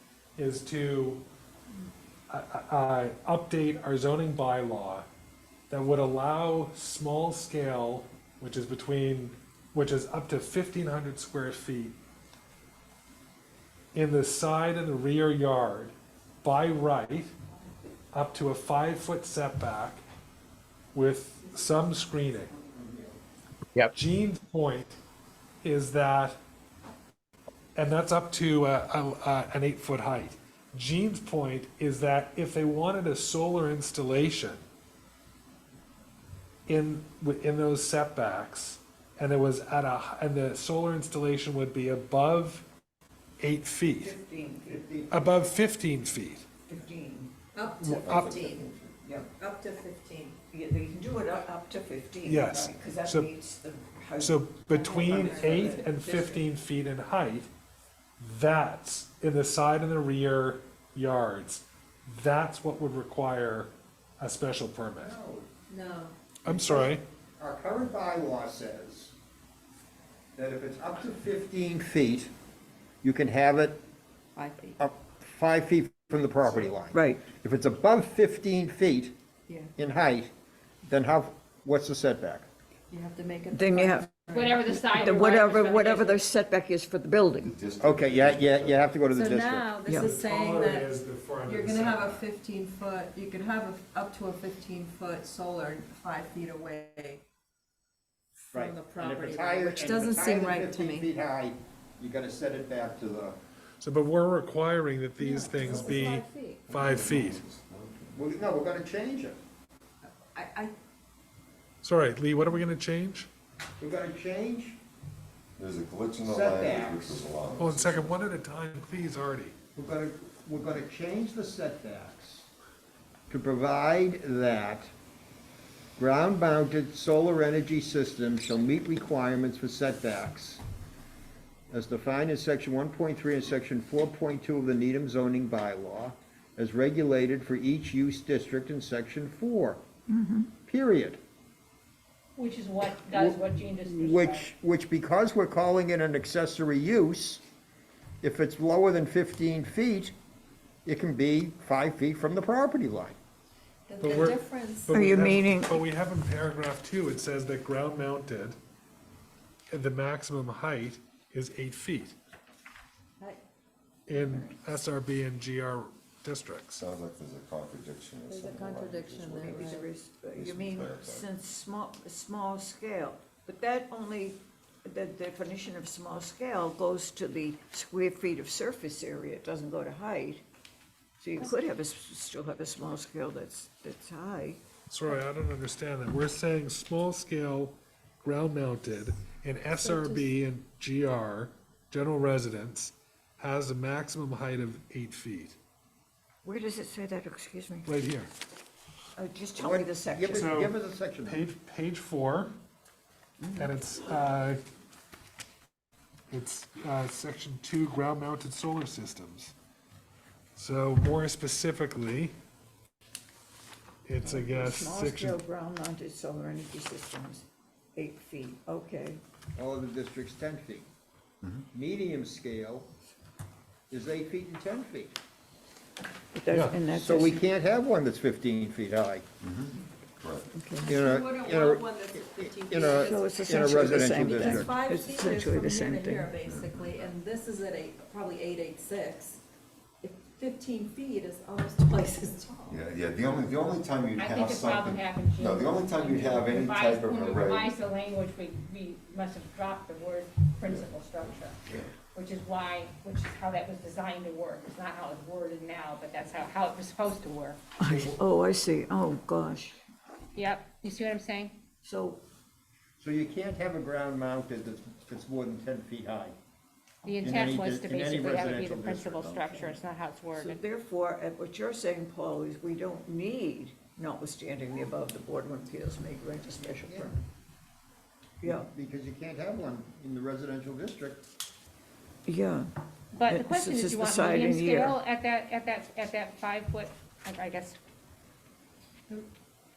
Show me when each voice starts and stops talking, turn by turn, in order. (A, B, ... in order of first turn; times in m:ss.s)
0:00.4-0:01.2 A
0:02.3-0:05.0 A
0:05.7-0:12.0 A
0:13.9-0:17.3 A
0:18.1-0:20.0 A
0:20.9-0:22.5 A
0:23.9-0:25.0 A
0:25.6-0:26.4 A
0:27.7-0:34.6 A
0:36.7-0:42.6 A
0:43.4-0:44.2 A
0:43.8-0:44.8 B
0:44.7-0:45.4 C
0:45.1-0:46.5 A
0:46.7-0:47.3 B
0:47.5-0:48.7 D
0:47.8-0:48.4 A
0:47.9-0:49.0 E
0:49.0-0:49.3 B
0:49.3-0:50.4 D
0:50.5-0:55.9 B
0:52.2-0:53.3 A
0:54.2-0:57.5 A
0:55.0-0:56.4 D
0:58.2-1:05.2 A
1:04.9-1:05.5 C
1:05.7-1:06.1 D
1:06.4-1:07.0 A
1:06.4-1:09.1 C
1:10.4-1:12.3 C
1:13.0-1:13.8 C
1:14.4-1:14.8 D
1:14.8-1:19.1 C
1:16.9-1:17.3 B
1:19.5-1:19.7 D
1:19.8-1:20.3 C
1:20.8-1:22.5 C
1:22.9-1:25.0 D
1:23.5-1:24.1 B
1:24.3-1:26.2 F
1:25.0-1:27.5 B
1:27.4-1:28.9 E
1:27.8-1:29.8 C
1:29.1-1:30.9 D
1:29.9-1:32.2 A
1:31.4-1:37.2 D
1:38.5-1:41.1 D
1:38.5-1:43.4 C
1:43.8-1:47.4 A
1:45.2-1:46.7 D
1:45.6-1:46.1 E
1:46.7-1:48.2 E
1:48.1-1:49.4 C
1:50.2-1:50.7 D
1:51.8-1:53.3 A
1:53.8-1:54.8 C
1:55.6-1:58.1 E
1:56.2-1:57.2 C
1:57.6-1:59.5 A
1:59.7-2:02.5 C
2:03.3-2:04.9 C
2:06.0-2:10.6 C
2:11.7-2:19.8 C
2:20.1-2:20.5 B
2:20.6-2:21.2 C
2:22.4-2:24.5 F
2:23.0-2:27.4 C
2:28.2-2:30.1 C
2:30.8-2:33.2 C
2:33.9-2:35.0 D
2:34.0-2:38.6 A
2:34.9-2:35.8 B
2:39.7-2:42.2 A
2:44.1-2:46.8 A
2:44.2-2:44.6 B
2:46.8-2:49.8 E
2:48.3-2:49.9 D
2:49.7-3:00.4 B
2:50.3-2:51.2 E
3:01.2-3:04.6 B
3:04.9-3:15.6 A
3:09.8-3:10.3 D
3:16.4-3:17.9 B
3:17.8-3:18.3 A
3:19.2-3:20.5 B
3:19.6-3:21.4 C
3:20.3-3:22.5 A
3:23.4-3:23.7 B
3:23.6-3:24.6 A
3:26.3-3:29.5 A
3:30.5-3:32.3 A
3:34.0-3:35.4 A
3:34.2-3:39.2 B
3:39.5-3:40.9 C
3:41.7-3:42.9 C
3:43.9-3:45.2 C
3:46.3-3:47.5 B
3:46.5-3:46.8 A
3:46.9-3:49.3 C
3:49.4-3:50.5 E
3:50.5-3:50.9 B
3:50.8-3:59.4 D
3:50.8-3:54.8 C
3:53.0-3:56.3 B
3:56.4-3:57.0 E
4:00.0-4:02.8 D
4:02.7-4:07.7 E
4:04.2-4:11.6 F
4:12.1-4:17.6 F
4:17.8-4:19.8 B
4:17.9-4:18.2 C
4:20.3-4:21.6 F
4:21.8-4:22.2 B
4:23.0-4:26.4 C
4:27.0-4:30.6 F
4:27.2-4:29.4 C
4:29.2-4:37.2 B
4:36.8-4:37.1 C
4:38.4-4:38.7 B
4:38.4-4:41.2 C
4:42.2-4:42.7 B
4:43.1-4:47.8 F
4:43.2-4:45.0 B